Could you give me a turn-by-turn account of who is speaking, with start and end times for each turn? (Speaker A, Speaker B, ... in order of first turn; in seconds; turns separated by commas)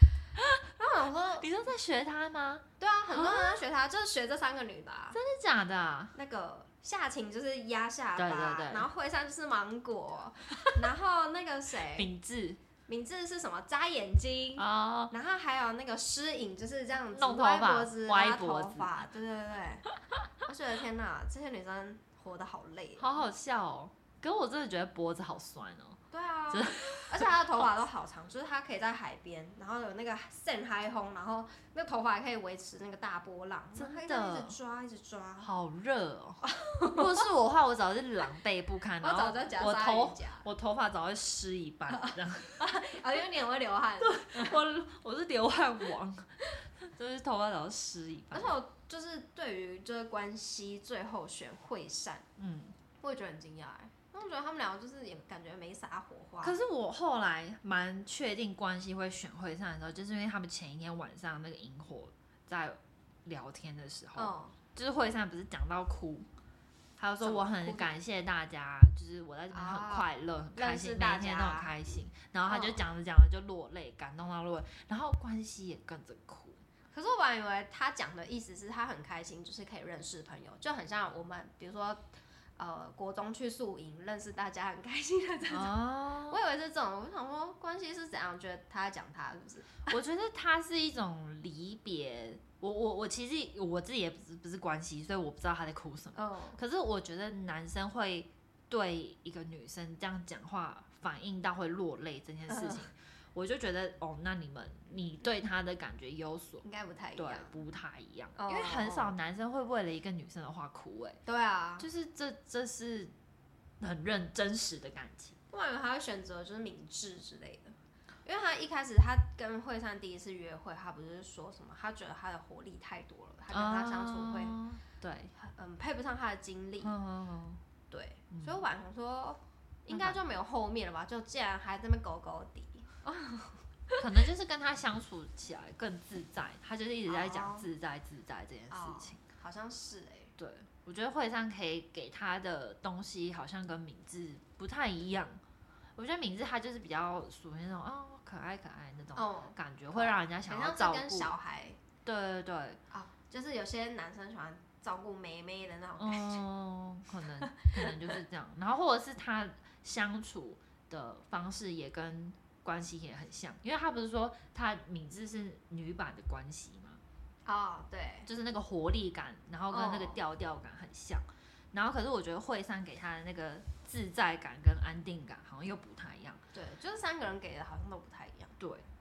Speaker A: 0.8-1.5, Speaker B: 1.4-3.6, Speaker A: 2.8-5.2, Speaker B: 5.1-6.1, Speaker A: 6.2-12.1, Speaker B: 8.2-8.9, Speaker B: 11.9-12.6, Speaker A: 12.9-19.9, Speaker B: 14.6-15.1, Speaker B: 17.1-18.9, Speaker A: 20.4-23.1, Speaker B: 23.0-26.0, Speaker A: 26.1-35.5, Speaker B: 26.5-27.7, Speaker B: 33.8-34.6, Speaker B: 35.4-42.8, Speaker A: 36.4-37.2, Speaker A: 39.0-40.5, Speaker A: 41.9-44.6, Speaker B: 44.0-48.5, Speaker A: 48.3-52.2, Speaker B: 52.4-52.8, Speaker A: 53.0-56.6, Speaker B: 56.4-66.3, Speaker A: 64.2-64.6, Speaker B: 67.0-76.6, Speaker A: 67.2-67.9, Speaker A: 69.5-71.7, Speaker A: 72.5-72.8, Speaker A: 76.9-82.0, Speaker A: 82.6-85.8, Speaker B: 85.5-86.4, Speaker A: 86.3-89.9, Speaker B: 89.9-106.6, Speaker A: 96.2-96.6, Speaker A: 106.6-107.6, Speaker B: 107.2-111.2, Speaker A: 108.4-109.1, Speaker A: 111.3-111.9, Speaker B: 111.8-113.1, Speaker B: 113.8-115.4, Speaker A: 115.5-124.6, Speaker B: 123.5-125.3, Speaker A: 125.4-126.9, Speaker B: 126.8-127.6, Speaker A: 127.9-134.1, Speaker B: 128.3-128.6, Speaker B: 129.9-130.2, Speaker B: 134.0-139.2, Speaker A: 137.1-137.7, Speaker A: 138.7-140.3, Speaker B: 140.4-145.4, Speaker B: 146.0-151.3, Speaker A: 149.2-151.8, Speaker B: 152.1-152.8, Speaker A: 152.9-156.4, Speaker B: 156.0-167.0, Speaker A: 157.4-158.2, Speaker A: 167.5-168.3, Speaker B: 168.3-176.4, Speaker A: 169.7-170.2, Speaker A: 176.5-178.6, Speaker B: 178.6-178.9